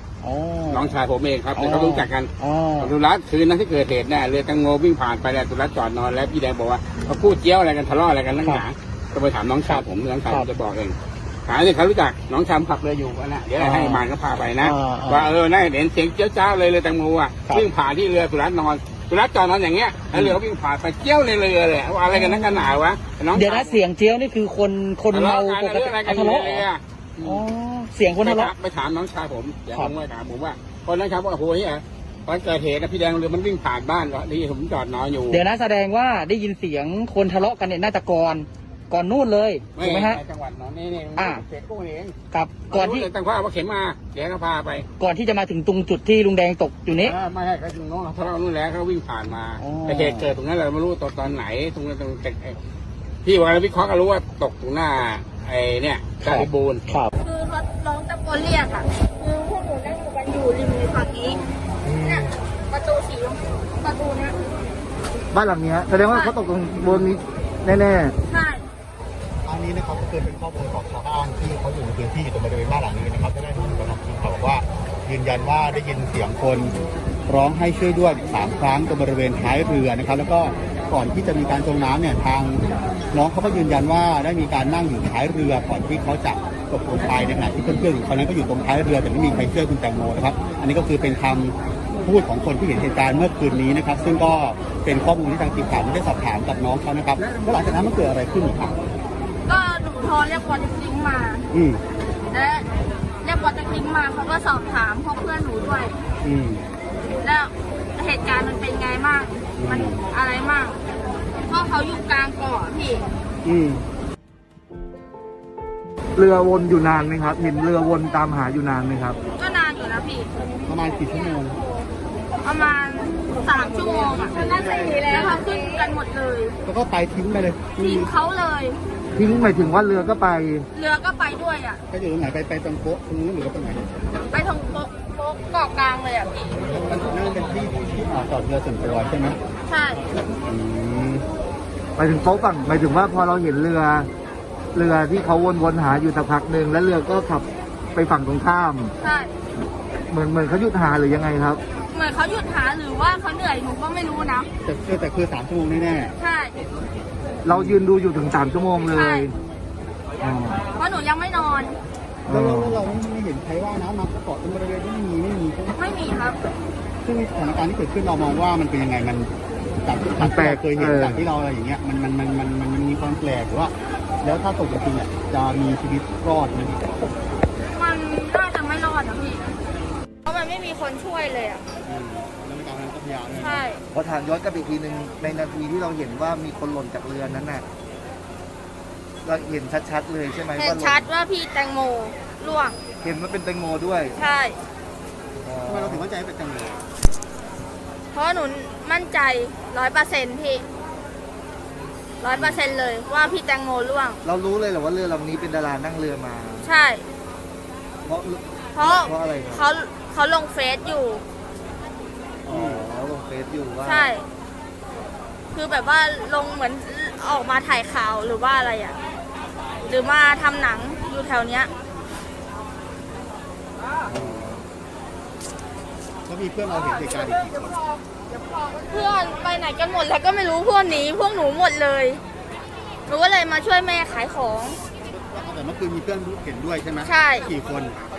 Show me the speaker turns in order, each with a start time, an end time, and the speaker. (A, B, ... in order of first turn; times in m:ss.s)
0:00.2-0:00.9 A
0:00.7-0:23.8 B
0:01.5-0:02.9 A
0:09.7-0:10.5 A
0:13.6-0:14.0 A
0:14.6-0:15.3 A
0:22.1-0:22.6 A
0:23.3-0:26.6 A
0:25.1-0:27.4 B
0:27.2-0:28.5 A
0:28.2-0:35.4 B
0:35.3-0:40.2 A
0:39.7-0:42.2 B
0:41.2-0:41.4 A
0:42.3-0:43.1 A
0:42.7-0:44.9 B
0:45.0-0:47.1 A
0:47.0-0:52.6 B
0:49.6-0:50.3 A
0:53.2-0:56.8 B
0:56.2-0:57.1 A
0:57.2-1:01.4 C
1:01.8-1:02.3 D
1:02.0-1:04.4 C
1:05.3-1:08.2 D
1:08.3-1:08.6 C
1:09.4-1:16.7 E
1:17.3-1:38.8 E
1:39.5-1:41.5 C
1:41.5-1:41.8 E
1:42.3-1:42.7 C
1:43.2-1:46.0 C
1:46.2-1:46.6 E
1:47.2-1:50.8 C
1:49.6-1:50.0 E
1:51.4-1:53.1 C
1:53.4-1:53.8 E
1:56.2-1:59.2 D
1:59.4-2:00.3 C
2:00.6-2:01.6 E
2:02.4-2:06.6 C
2:06.6-2:08.1 E
2:07.8-2:08.8 C
2:09.2-2:09.7 E
2:09.2-2:10.7 D
2:10.7-2:11.8 C
2:11.9-2:14.0 E
2:14.3-2:16.6 C
2:16.6-2:19.4 E
2:19.7-2:20.0 C
2:20.4-2:21.3 E
2:22.0-2:24.1 D
2:24.7-2:28.9 D
2:29.0-2:29.3 C
2:30.1-2:31.6 D
2:31.9-2:34.5 C
2:34.6-2:36.1 E
2:36.2-2:36.6 C
2:37.4-2:39.3 D
2:37.5-2:37.8 E
2:38.9-2:39.3 C
2:40.2-2:40.6 D
2:40.8-2:41.8 C
2:42.3-2:42.8 D
2:42.3-2:45.8 E
2:45.8-2:46.4 C
2:47.0-2:49.3 E
2:49.8-2:56.9 E
2:50.2-2:51.3 D
2:57.7-2:59.5 C
3:00.2-3:01.6 C
3:01.8-3:03.6 E
3:03.4-3:03.8 C
3:03.9-3:07.6 D
3:09.2-3:11.1 D
3:10.6-3:12.8 C
3:13.0-3:14.2 D
3:14.2-3:14.6 C
3:15.4-3:16.1 D
3:15.6-3:16.8 E
3:18.1-3:20.6 C
3:22.2-3:24.2 C
3:24.2-3:26.7 D
3:26.6-3:27.0 C
3:28.0-3:29.6 D
3:28.7-3:31.2 C
3:32.4-3:34.1 D
3:32.5-3:32.8 E
3:33.8-3:34.2 C
3:35.5-3:39.0 C
3:39.8-3:41.7 C
3:44.1-3:44.6 D
3:44.1-3:44.4 E
3:46.3-3:47.8 E
3:48.9-3:52.2 C
3:53.1-3:54.8 C
3:55.1-3:58.0 E
3:57.0-3:57.5 C